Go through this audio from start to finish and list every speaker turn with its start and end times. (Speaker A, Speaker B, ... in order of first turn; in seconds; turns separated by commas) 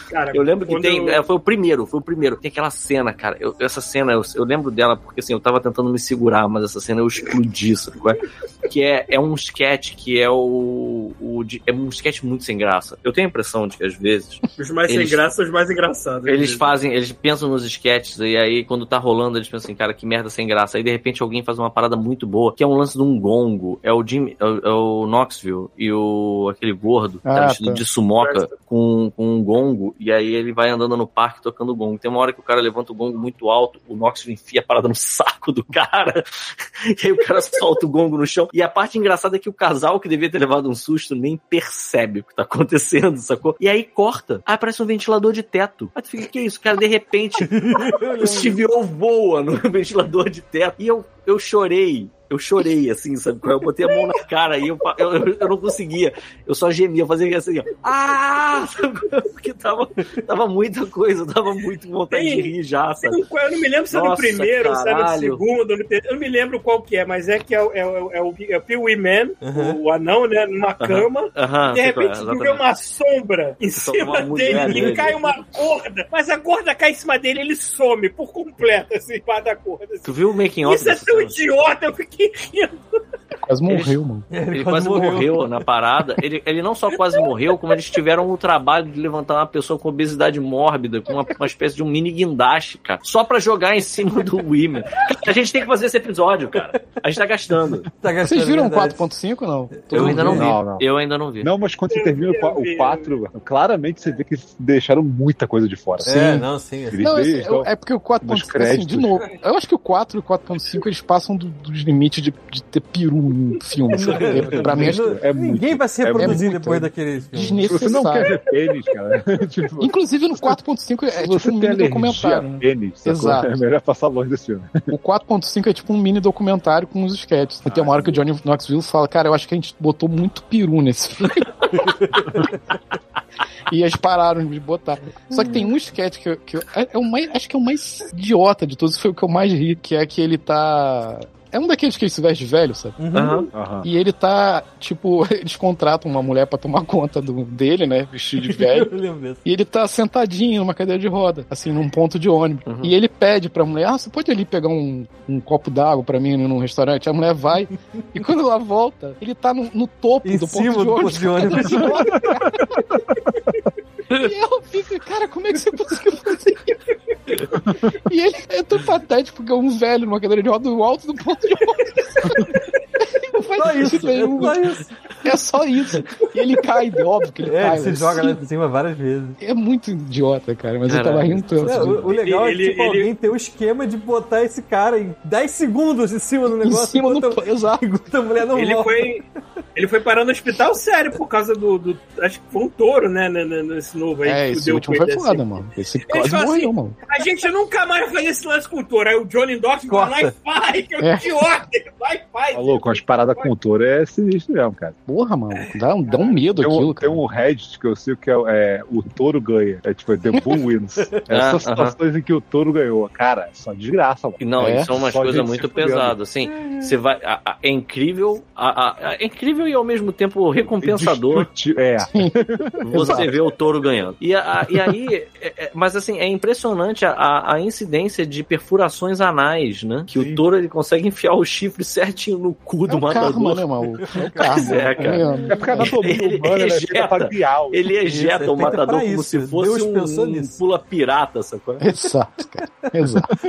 Speaker A: 0.1-1.2, Speaker B: 0.3-15.2, Speaker A: 14.6-16.6, Speaker B: 16.2-63.2, Speaker C: 27.2-27.8, Speaker D: 47.4-48.6, Speaker A: 62.1-62.5, Speaker A: 63.0-83.0, Speaker B: 63.9-65.4, Speaker D: 69.4-69.8, Speaker B: 70.8-72.6, Speaker B: 73.8-75.3, Speaker D: 74.5-75.0, Speaker B: 80.0-81.4, Speaker C: 83.5-84.3, Speaker B: 83.7-84.0, Speaker D: 84.3-85.4, Speaker B: 84.5-97.9, Speaker D: 98.0-99.0, Speaker C: 98.2-100.5, Speaker D: 99.7-100.5, Speaker B: 99.9-101.5, Speaker E: 100.3-100.8, Speaker E: 101.4-106.3, Speaker A: 101.9-103.1, Speaker C: 106.0-106.5, Speaker D: 106.0-107.1, Speaker E: 106.9-107.7, Speaker C: 107.0-115.2, Speaker E: 108.2-109.3, Speaker D: 113.9-117.7, Speaker E: 114.2-116.5, Speaker C: 116.1-118.4, Speaker E: 117.6-119.9, Speaker A: 117.9-118.4, Speaker C: 119.8-123.6, Speaker E: 121.1-124.9, Speaker C: 124.9-131.9, Speaker E: 127.7-128.2, Speaker D: 131.9-132.5, Speaker C: 133.7-143.0, Speaker D: 135.3-135.7, Speaker D: 143.0-143.4, Speaker B: 143.1-143.5, Speaker E: 143.5-143.9, Speaker C: 143.8-148.9, Speaker D: 148.4-149.4, Speaker C: 149.4-162.8, Speaker B: 152.6-152.9, Speaker D: 160.2-162.3, Speaker C: 164.1-166.8, Speaker C: 167.3-178.5, Speaker D: 173.6-174.9, Speaker D: 177.4-179.4, Speaker C: 179.4-182.1, Speaker B: 180.9-181.4, Speaker D: 181.6-189.1, Speaker A: 182.0-183.1, Speaker C: 186.5-187.8, Speaker A: 188.5-189.2, Speaker A: 189.8-195.4, Speaker C: 194.2-197.0, Speaker A: 196.1-203.5, Speaker D: 199.9-200.3, Speaker C: 201.0-201.3, Speaker E: 202.5-204.9, Speaker C: 205.1-207.2, Speaker A: 205.5-206.4, Speaker E: 206.6-216.2, Speaker B: 211.3-211.9, Speaker B: 214.4-221.5, Speaker C: 214.6-214.9, Speaker D: 216.4-217.0, Speaker E: 220.8-223.2, Speaker C: 222.1-222.4, Speaker B: 222.8-233.7, Speaker C: 222.9-223.3, Speaker E: 230.1-230.4, Speaker C: 232.9-235.9, Speaker D: 233.9-235.9, Speaker B: 234.4-235.2, Speaker E: 235.4-237.9, Speaker B: 235.9-241.8, Speaker D: 238.1-240.6, Speaker C: 241.8-243.3, Speaker D: 242.9-243.2